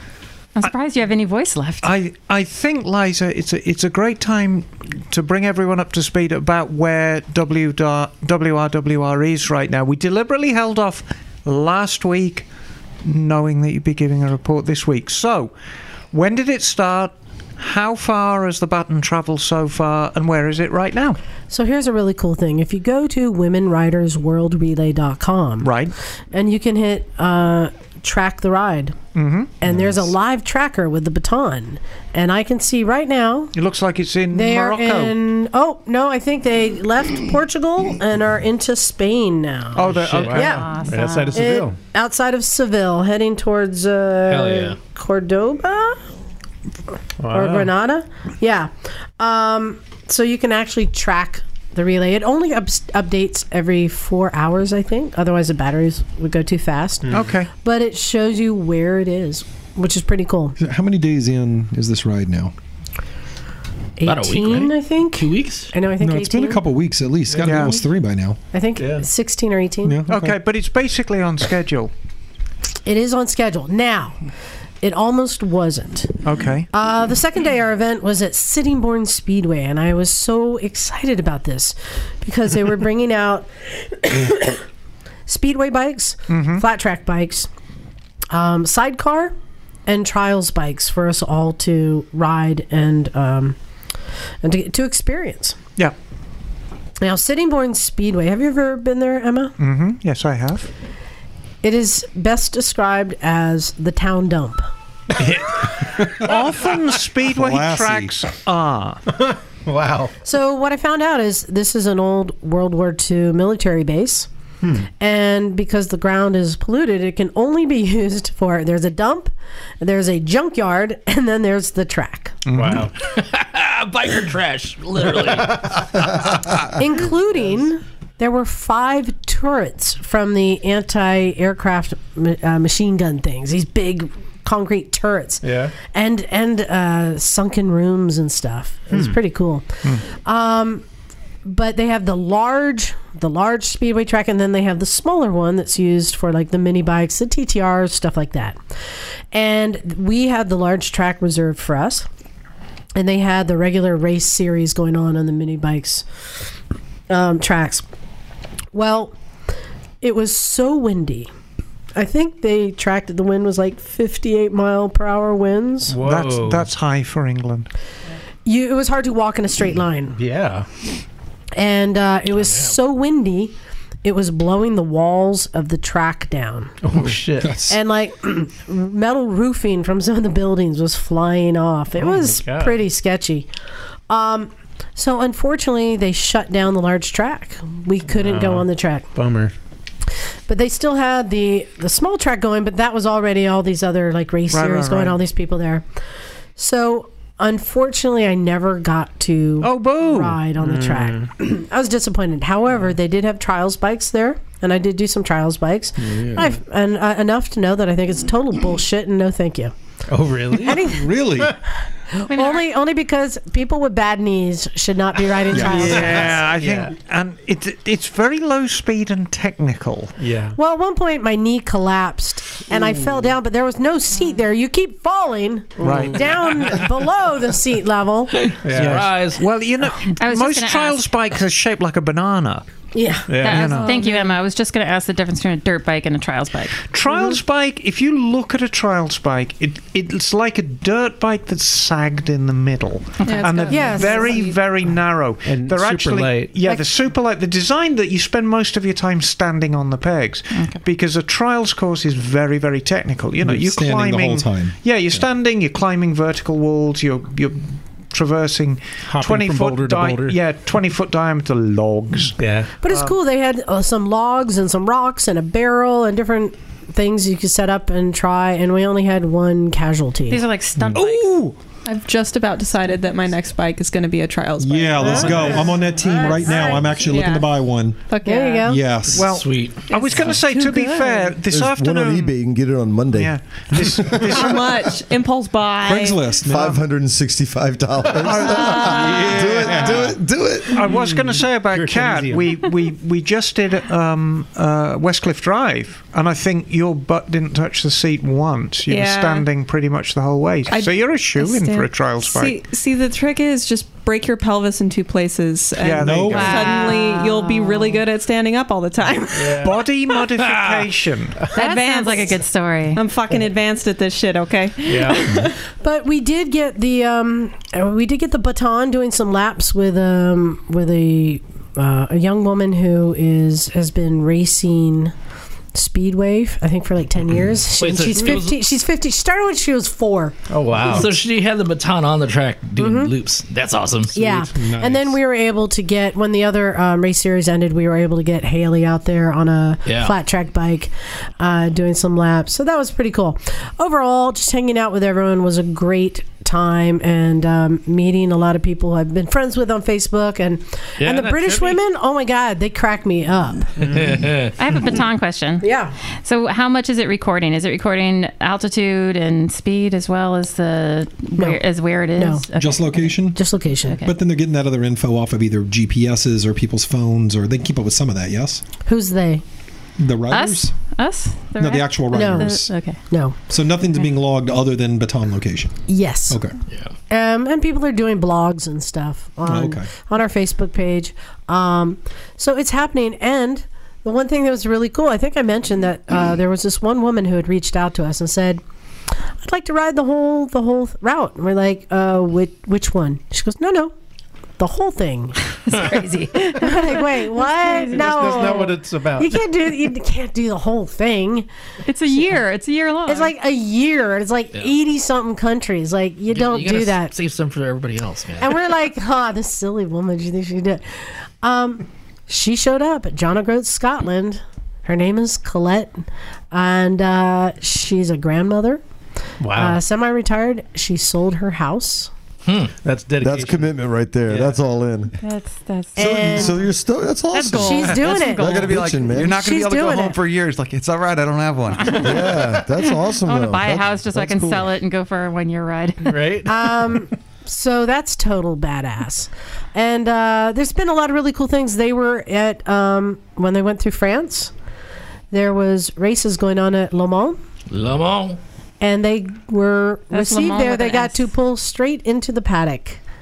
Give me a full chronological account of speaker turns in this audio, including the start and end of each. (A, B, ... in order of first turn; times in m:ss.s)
0:00.6-0:01.9 A
0:01.8-0:12.5 B
0:13.0-0:15.5 B
0:16.1-0:21.2 B
0:21.5-0:25.7 C
0:25.6-0:25.9 B
0:26.3-0:29.0 C
0:29.2-0:29.5 B
0:29.6-0:33.5 C
0:33.6-0:35.2 B
0:34.3-0:40.7 C
0:39.8-0:40.7 B
0:39.9-0:41.8 D
0:40.4-0:41.5 A
0:41.3-0:46.0 C
0:44.3-0:44.8 E
0:47.2-0:47.7 D
0:47.3-1:00.6 C
0:57.1-0:57.5 B
1:00.6-1:02.5 F
1:04.0-1:06.6 C
1:04.0-1:05.7 E
1:06.0-1:08.4 F
1:07.3-1:07.8 D
1:07.4-1:07.8 B
1:08.5-1:10.0 C
1:08.8-1:09.1 D
1:09.8-1:10.4 F
1:10.1-1:11.9 B
1:12.9-1:14.2 C
1:14.8-1:16.2 C
1:16.2-1:16.7 B
1:16.7-1:24.6 C
1:25.3-1:27.5 C
1:26.3-1:26.6 B
1:28.3-1:29.3 C
1:29.9-1:33.6 C
1:34.4-1:35.6 C
1:37.0-1:39.5 C
1:39.6-1:40.7 B
1:41.6-1:44.6 C
1:45.2-1:49.0 B
1:47.3-1:48.1 F
1:49.1-1:50.1 D
1:50.2-1:54.3 C
1:55.0-2:02.4 C
2:02.5-2:02.9 B
2:02.5-2:02.9 D
2:03.0-2:06.0 E
2:06.7-2:20.8 C
2:15.4-2:15.8 D
2:21.4-2:28.6 C
2:29.3-2:32.1 C
2:33.0-2:36.0 C
2:37.1-2:37.8 C
2:38.7-2:39.1 C
2:40.0-2:41.3 C
2:42.0-2:46.0 C
2:45.9-2:46.7 D
2:46.0-2:47.7 B
2:48.4-2:50.2 C
2:50.2-2:50.7 D
2:51.6-2:53.5 C
2:52.4-2:52.7 E
2:54.0-2:56.8 C
2:56.8-2:57.6 D
2:57.0-2:57.8 F
2:57.7-3:03.5 C
3:02.0-3:02.8 D
3:04.1-3:09.1 C
3:08.1-3:09.5 D
3:10.5-3:15.8 C
3:14.5-3:15.2 B
3:16.6-3:29.7 C
3:19.6-3:20.4 B
3:20.6-3:21.3 D
3:30.1-3:30.9 D
3:30.6-3:31.1 C
3:30.8-3:31.5 F
3:32.1-3:36.4 C
3:32.3-3:32.6 A
3:35.5-3:36.1 F
3:35.6-3:37.0 D
3:35.7-3:40.2 B
3:40.2-3:40.6 D
3:40.6-3:48.4 C
3:45.8-3:46.2 D
3:45.8-3:46.3 B
3:48.4-3:49.4 E
3:48.6-3:49.1 D
3:48.7-3:52.7 B
3:50.1-3:51.0 A
3:52.9-3:53.3 C
3:53.3-3:53.7 D
3:53.4-3:56.8 A
3:53.4-3:54.0 B
3:53.6-3:54.4 G
3:56.9-4:23.2 B
4:03.2-4:03.9 A
4:03.2-4:04.6 G
4:03.7-4:04.4 C
4:05.4-4:06.5 D
4:10.5-4:10.8 A
4:13.4-4:15.2 F
4:19.0-4:20.4 D
4:22.4-4:22.7 D
4:22.8-4:30.4 C
4:30.3-4:31.3 A
4:30.8-4:31.0 D
4:30.9-4:31.6 B
4:31.8-4:38.8 G
4:34.6-4:38.0 F
4:35.0-4:35.7 D
4:38.2-4:38.8 C
4:38.6-4:39.3 F
4:39.1-4:40.4 E
4:39.2-4:42.4 B
4:40.0-4:40.8 G
4:40.6-4:40.9 C
4:41.5-4:44.4 H
4:43.1-4:44.8 B
4:44.3-4:46.3 G
4:45.8-4:46.8 F
4:46.4-4:50.8 H
4:48.2-4:50.1 B
4:48.6-4:49.1 G
4:48.7-4:49.7 I
4:49.1-4:49.5 F
4:49.5-4:50.2 D
4:50.7-4:52.5 D
4:50.7-5:02.6 B
4:58.9-4:59.5 G
5:00.7-5:09.7 G
5:05.8-5:06.8 B
5:06.0-5:06.5 F
5:06.3-5:08.0 A
5:09.4-5:09.8 D
5:09.5-5:11.5 B
5:10.4-5:10.8 E
5:11.5-5:13.0 A
5:11.6-5:12.4 G
5:12.9-5:15.6 G
5:14.9-5:15.3 D
5:15.8-5:25.1 C
5:25.7-5:30.4 C
5:27.7-5:28.6 E
5:30.5-5:31.2 D
5:30.8-5:34.2 E
5:32.8-5:33.1 C
5:34.1-5:54.2 C
5:34.3-5:35.0 D
5:39.8-5:40.1 E
5:51.0-5:51.8 E
5:53.8-5:54.5 E
5:54.6-5:55.6 A
5:55.6-5:55.9 C
5:56.2-6:04.2 A
6:02.2-6:02.5 C
6:02.6-6:03.5 F
6:03.3-6:04.0 C
6:04.0-6:08.6 F
6:08.9-6:09.4 C
6:10.0-6:10.8 F
6:10.3-6:13.0 A
6:11.6-6:12.7 F
6:12.1-6:13.4 C
6:13.5-6:16.6 F
6:15.9-6:16.4 C
6:17.1-6:28.6 C
6:19.5-6:19.9 F
6:29.4-6:33.9 C
6:34.6-6:35.4 C
6:35.6-6:38.6 A
6:36.5-6:41.5 C
6:37.9-6:39.4 D
6:41.9-6:43.3 A
6:43.1-6:47.1 C
6:46.3-6:48.6 E
6:48.4-6:50.8 C
6:51.4-6:58.8 C
6:59.4-6:59.8 D
6:59.5-7:02.1 C
7:02.4-7:02.7 E
7:02.8-7:03.7 D
7:03.2-7:05.2 H
7:04.3-7:04.6 D
7:05.2-7:06.5 A
7:06.0-7:06.7 C
7:06.0-7:09.4 H
7:07.3-7:08.8 A
7:07.5-7:08.5 C
7:08.4-7:12.1 I
7:09.3-7:10.2 C
7:11.9-7:12.2 A
7:11.9-7:14.7 H
7:12.8-7:16.3 A
7:16.0-7:17.1 D
7:16.4-7:24.5 C
7:25.3-7:27.4 C
7:27.7-7:28.4 E
7:28.8-7:33.0 C
7:30.1-7:31.2 A